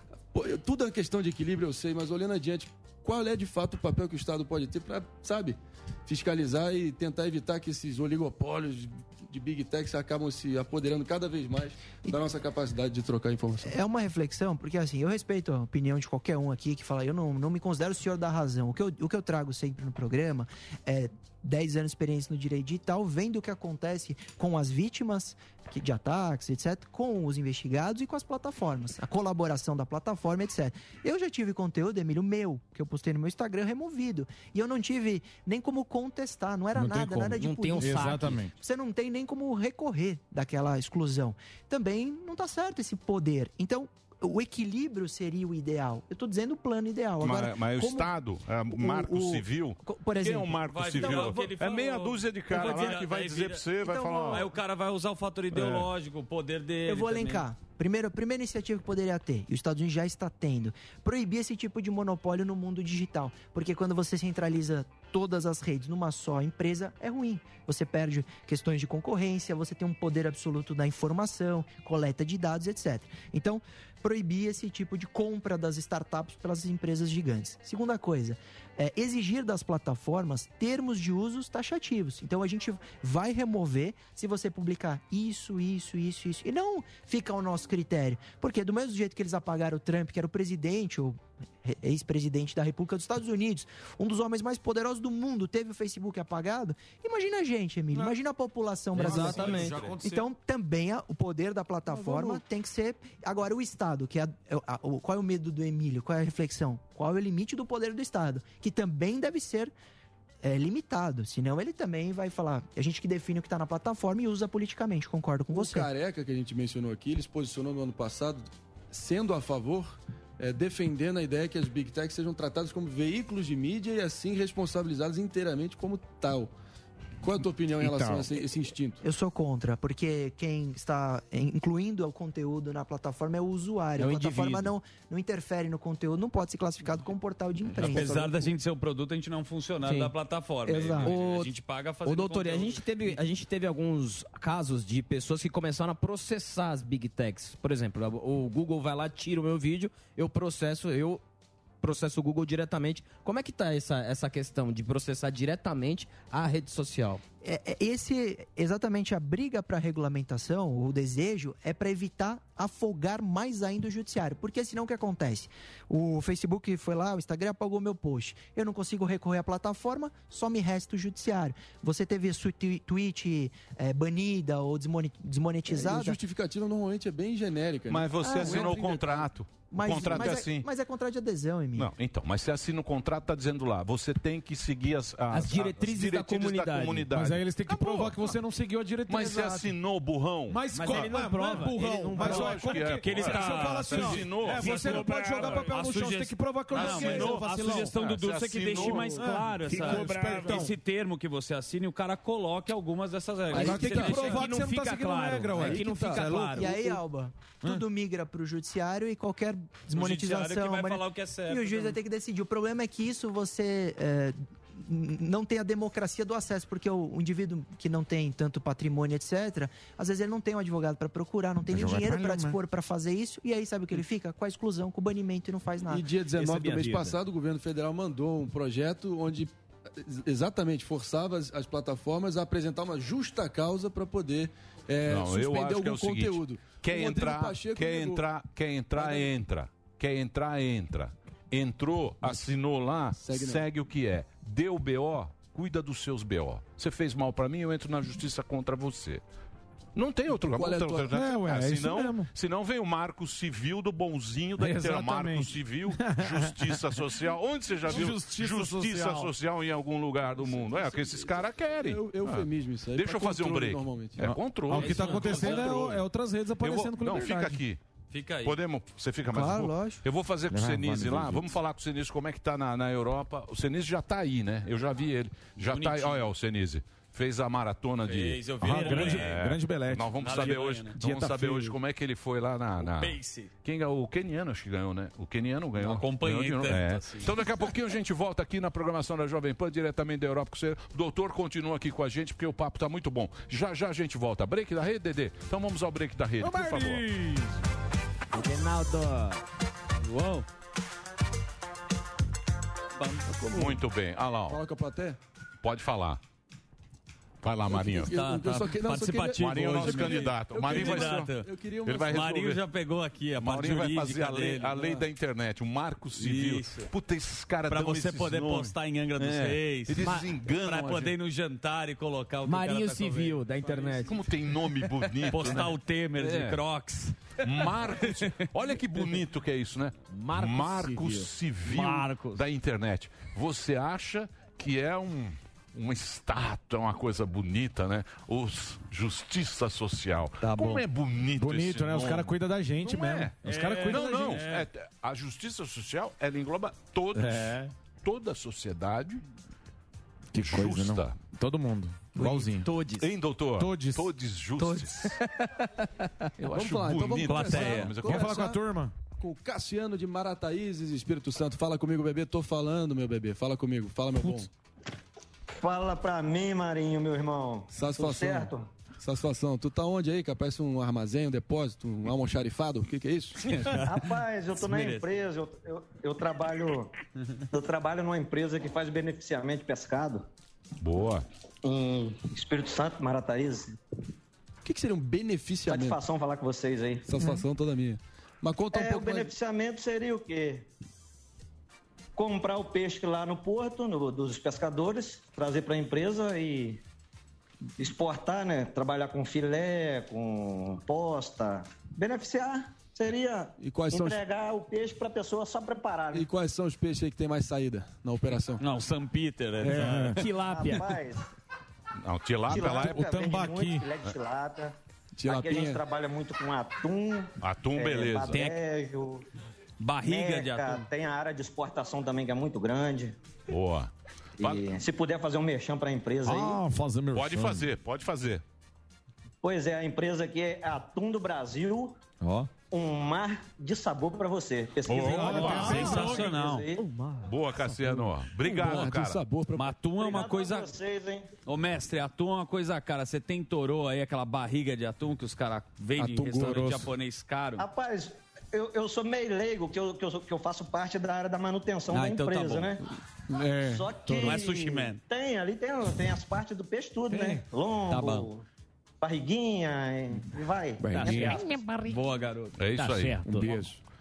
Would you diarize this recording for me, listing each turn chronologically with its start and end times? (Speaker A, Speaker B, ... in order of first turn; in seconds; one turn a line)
Speaker A: 0.3-13.7
Speaker B: 13.6-48.1
Speaker C: 36.8-38.4
Speaker D: 37.8-38.5
Speaker E: 47.2-54.5
Speaker B: 48.7-51.4
Speaker F: 50.7-53.6
Speaker B: 53.8-54.5
Speaker F: 54.3-57.4
Speaker B: 56.9-109.7
Speaker C: 98.9-99.9
Speaker F: 99.0-100.2
Speaker D: 99.0-100.0
Speaker D: 102.0-102.3
Speaker B: 110.4-115.9
Speaker A: 115.5-126.5
Speaker A: 127.2-129.0
Speaker B: 129.0-138.1
Speaker C: 134.0-134.7
Speaker A: 137.8-138.5
Speaker F: 137.8-142.8
Speaker C: 139.8-140.1
Speaker C: 140.7-141.5
Speaker C: 142.0-151.2
Speaker C: 151.8-157.2
Speaker B: 157.4-176.2
Speaker A: 175.7-178.9
Speaker E: 177.9-180.7
Speaker B: 178.2-178.8
Speaker B: 179.7-181.9
Speaker E: 181.8-188.4
Speaker C: 185.3-187.1
Speaker D: 187.1-189.7
Speaker E: 189.1-190.6
Speaker D: 190.5-197.9
Speaker C: 190.7-192.6
Speaker F: 192.1-204.5
Speaker E: 192.2-195.6
Speaker E: 196.7-199.2
Speaker D: 199.2-200.7
Speaker A: 203.5-204.5
Speaker C: 203.5-206.9
Speaker D: 203.5-206.7
Speaker A: 205.6-206.3
Speaker B: 206.6-226.1
Speaker F: 209.9-212.0
Speaker D: 221.7-222.6
Speaker A: 225.8-238.2
Speaker C: 226.4-227.1
Speaker E: 235.1-249.2
Speaker A: 238.9-239.3
Speaker A: 243.2-243.7
Speaker E: 249.9-266.0
Speaker A: 250.4-251.1
Speaker D: 251.1-252.3
Speaker D: 254.6-256.5
Speaker D: 257.9-259.3
Speaker A: 260.4-264.3
Speaker D: 264.2-267.6
Speaker F: 264.7-266.0
Speaker E: 266.6-267.8
Speaker F: 268.1-268.6
Speaker E: 268.4-297.0
Speaker B: 269.3-269.8
Speaker D: 270.5-271.3
Speaker F: 275.6-276.3
Speaker F: 278.1-279.5
Speaker D: 278.6-280.1
Speaker F: 280.2-281.0
Speaker D: 281.0-281.7
Speaker F: 282.8-283.5
Speaker F: 285.8-287.4
Speaker D: 296.4-297.4
Speaker C: 298.3-299.4
Speaker F: 300.0-300.4
Speaker F: 303.0-303.2
Speaker A: 303.2-303.8
Speaker E: 303.5-304.6
Speaker A: 304.5-305.2
Speaker E: 305.6-306.2
Speaker E: 307.4-308.2
Speaker A: 307.7-312.2
Speaker F: 308.0-315.0
Speaker E: 309.3-311.3
Speaker E: 311.8-312.6
Speaker E: 313.4-321.2
Speaker F: 316.1-316.9
Speaker F: 317.7-324.1
Speaker C: 320.0-320.3
Speaker C: 322.4-324.2
Speaker E: 324.0-326.6
Speaker F: 325.3-327.4
Speaker E: 327.4-349.2
Speaker C: 330.1-331.3
Speaker F: 331.7-332.3
Speaker F: 340.4-340.8
Speaker D: 341.4-344.5
Speaker F: 343.4-344.6
Speaker D: 347.1-347.7
Speaker E: 350.3-351.2
Speaker D: 350.3-352.7
Speaker C: 352.1-353.1
Speaker E: 353.0-355.1
Speaker D: 353.6-354.1
Speaker C: 354.6-355.7
Speaker E: 356.4-358.4
Speaker A: 356.5-358.6
Speaker F: 357.2-357.9
Speaker D: 358.0-358.9
Speaker A: 359.2-364.5
Speaker G: 365.6-368.7
Speaker A: 367.7-373.7
Speaker F: 373.5-373.9
Speaker G: 373.7-376.9
Speaker F: 374.6-375.1
Speaker G: 377.5-380.2
Speaker E: 380.8-381.2
Speaker G: 381.6-383.8
Speaker A: 384.6-386.0
Speaker G: 385.6-387.3
Speaker A: 387.1-389.3
Speaker G: 388.7-390.7
Speaker G: 392.1-396.8
Speaker G: 397.8-406.3
Speaker A: 403.6-404.2
Speaker A: 406.1-408.6
Speaker F: 408.6-410.7
Speaker D: 409.6-410.3
Speaker G: 410.3-411.2
Speaker E: 412.0-413.1
Speaker G: 412.5-419.2
Speaker D: 412.5-413.9
Speaker A: 415.1-415.8
Speaker E: 417.4-418.5
Speaker F: 418.3-418.6
Speaker F: 419.8-420.9
Speaker G: 420.0-423.1
Speaker E: 423.5-424.7
Speaker G: 424.4-426.6
Speaker D: 426.2-427.7
Speaker E: 427.1-428.4
Speaker G: 429.4-432.0
Speaker G: 432.7-436.8
Speaker E: 434.9-436.0
Speaker D: 435.1-436.3
Speaker F: 435.2-436.6
Speaker C: 436.8-437.3
Speaker E: 437.2-439.2
Speaker A: 437.8-439.8
Speaker F: 439.5-440.7
Speaker G: 439.9-441.3
Speaker F: 441.4-447.7
Speaker A: 446.0-446.8
Speaker G: 447.6-452.8
Speaker F: 451.9-452.7
Speaker D: 453.3-454.3
Speaker G: 453.5-458.4
Speaker F: 454.1-455.0
Speaker D: 457.1-457.4
Speaker F: 457.9-458.3
Speaker G: 459.0-461.5
Speaker F: 460.8-463.6
Speaker D: 461.0-461.3
Speaker E: 462.6-463.7
Speaker D: 463.3-463.6